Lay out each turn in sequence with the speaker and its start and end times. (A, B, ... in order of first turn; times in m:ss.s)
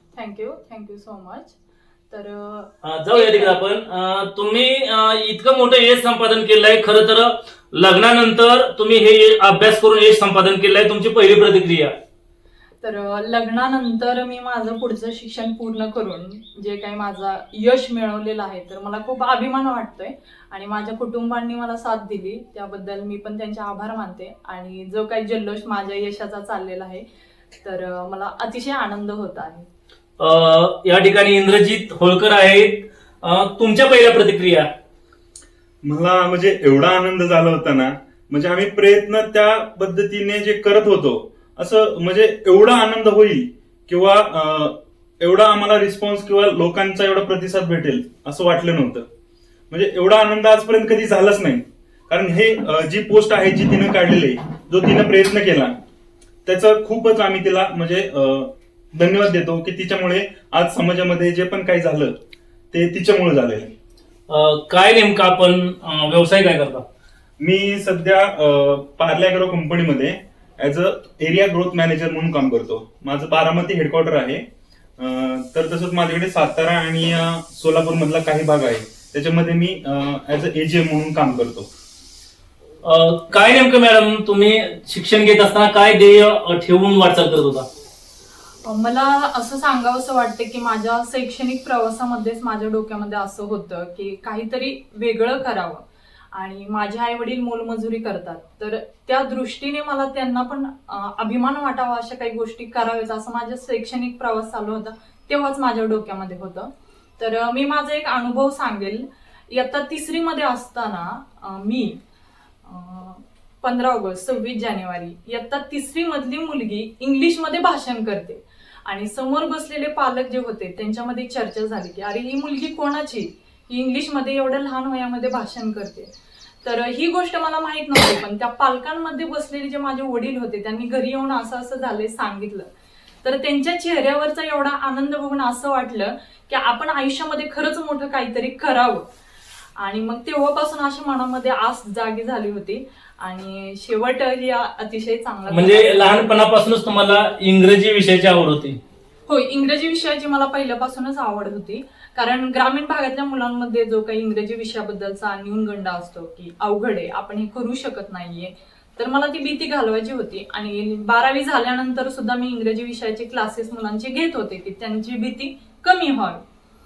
0:00.1-0:01.6 A
0:02.1-0:03.6 A
0:02.8-0:11.9 B
0:12.8-0:27.0 A
0:27.6-0:29.7 A
0:30.2-0:34.7 B
0:35.8-0:49.1 C
0:49.7-0:55.8 C
0:56.5-1:02.2 C
1:02.7-1:03.7 C
1:04.3-1:06.8 B
1:07.4-1:14.4 C
1:15.0-1:21.7 C
1:22.8-1:27.7 B
1:28.6-1:52.0 A
1:52.6-2:06.1 A
2:06.6-2:12.7 A
2:13.2-2:19.1 A
2:19.8-2:26.3 A
2:25.5-2:28.8 B
2:29.3-2:46.4 A